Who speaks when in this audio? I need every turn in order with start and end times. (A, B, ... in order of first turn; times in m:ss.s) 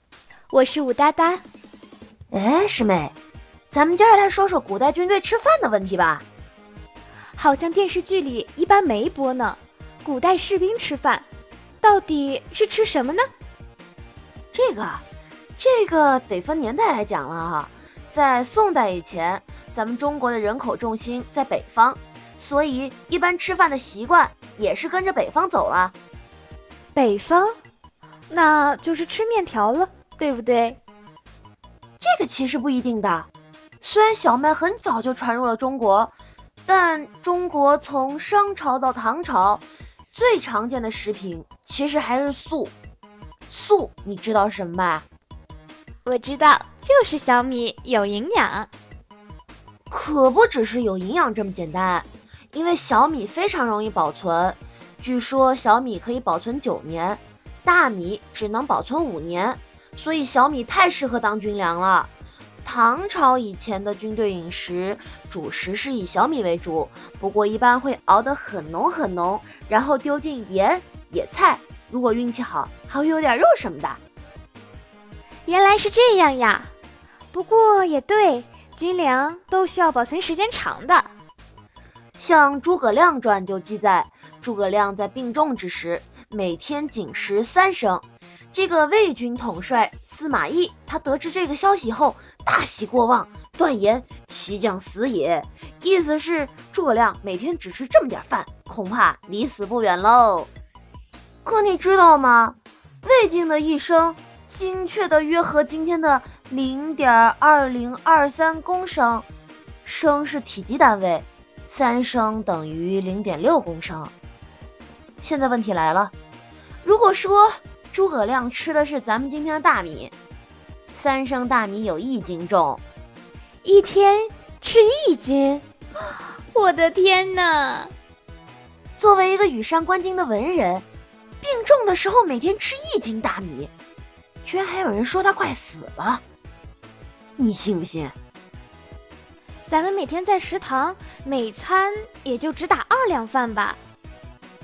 0:00.5-0:01.4 A
0:02.3-0:03.1 B
0:03.7-0:06.2 B
0:07.4-0:11.2 A
0:11.8-0:13.3 A
0:14.5-0:15.0 B
0:15.6-0:25.9 B
0:26.9-0:27.6 A
0:28.3-0:30.8 A
0:32.0-0:33.3 B
0:33.8-0:36.1 B
0:36.7-0:42.7 B
0:43.5-0:45.0 B
0:46.0-0:48.7 A
0:49.9-1:02.1 B
1:02.6-1:14.0 B
1:15.4-1:16.7 A
1:17.3-1:21.1 A
1:22.2-1:40.5 B
1:41.4-1:49.2 B
1:49.8-1:54.1 B
1:55.2-1:56.1 B
1:56.8-2:00.1 B
2:00.9-2:02.8 B
2:03.6-2:07.9 A
2:09.0-2:10.8 B
2:11.4-2:13.7 B
2:14.4-2:16.2 B
2:17.4-2:18.1 B
2:19.7-2:23.8 A